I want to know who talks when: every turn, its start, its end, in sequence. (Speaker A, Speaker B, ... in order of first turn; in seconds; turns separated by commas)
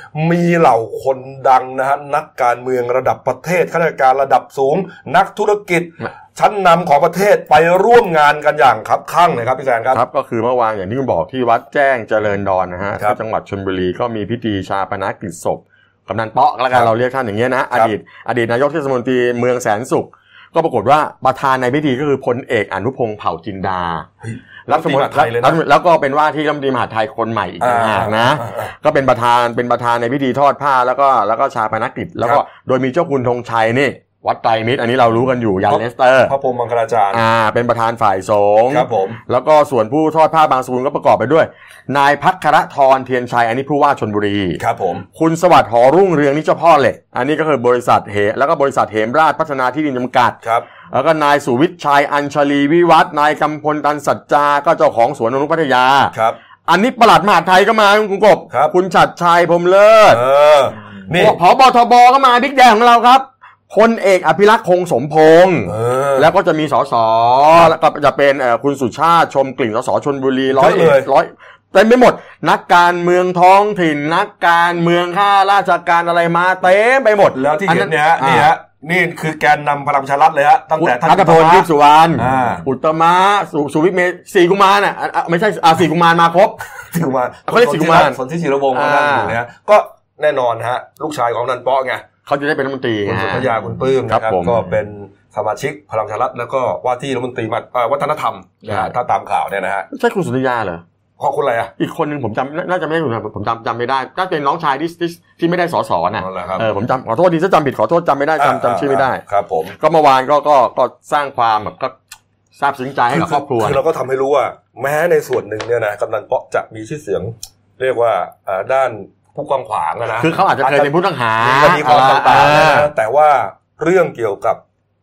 Speaker A: 0.1-10.0, Speaker B: 9.9-24.1, Speaker A: 24.2-25.6, Speaker B: 24.7-36.3, Speaker A: 27.6-28.7, Speaker A: 35.7-37.2, Speaker B: 37.1-44.6, Speaker A: 38.7-39.2, Speaker A: 44.6-45.0, Speaker B: 45.1-50.4, Speaker A: 50.4-50.7, Speaker B: 50.9-56.1, Speaker A: 56.1-56.4, Speaker B: 56.7-60.2, Speaker A: 60.1-61.4, Speaker B: 61.1-78.5, Speaker A: 65.7-66.3, Speaker A: 70.5-71.1, Speaker A: 77.3-82.6, Speaker B: 80.8-86.6, Speaker A: 86.9-92.0, Speaker B: 87.5-88.2, Speaker B: 88.7-89.4, Speaker B: 92.2-93.5, Speaker A: 93.0-99.9, Speaker B: 94.1-94.7, Speaker B: 98.6-98.9, Speaker B: 99.9-100.8, Speaker A: 101.2-101.7, Speaker B: 101.8-109.2, Speaker A: 106.2-106.7, Speaker A: 108.4-109.8, Speaker B: 109.8-111.9, Speaker B: 112.5-113.8, Speaker A: 113.1-124.6, Speaker B: 120.2-122.9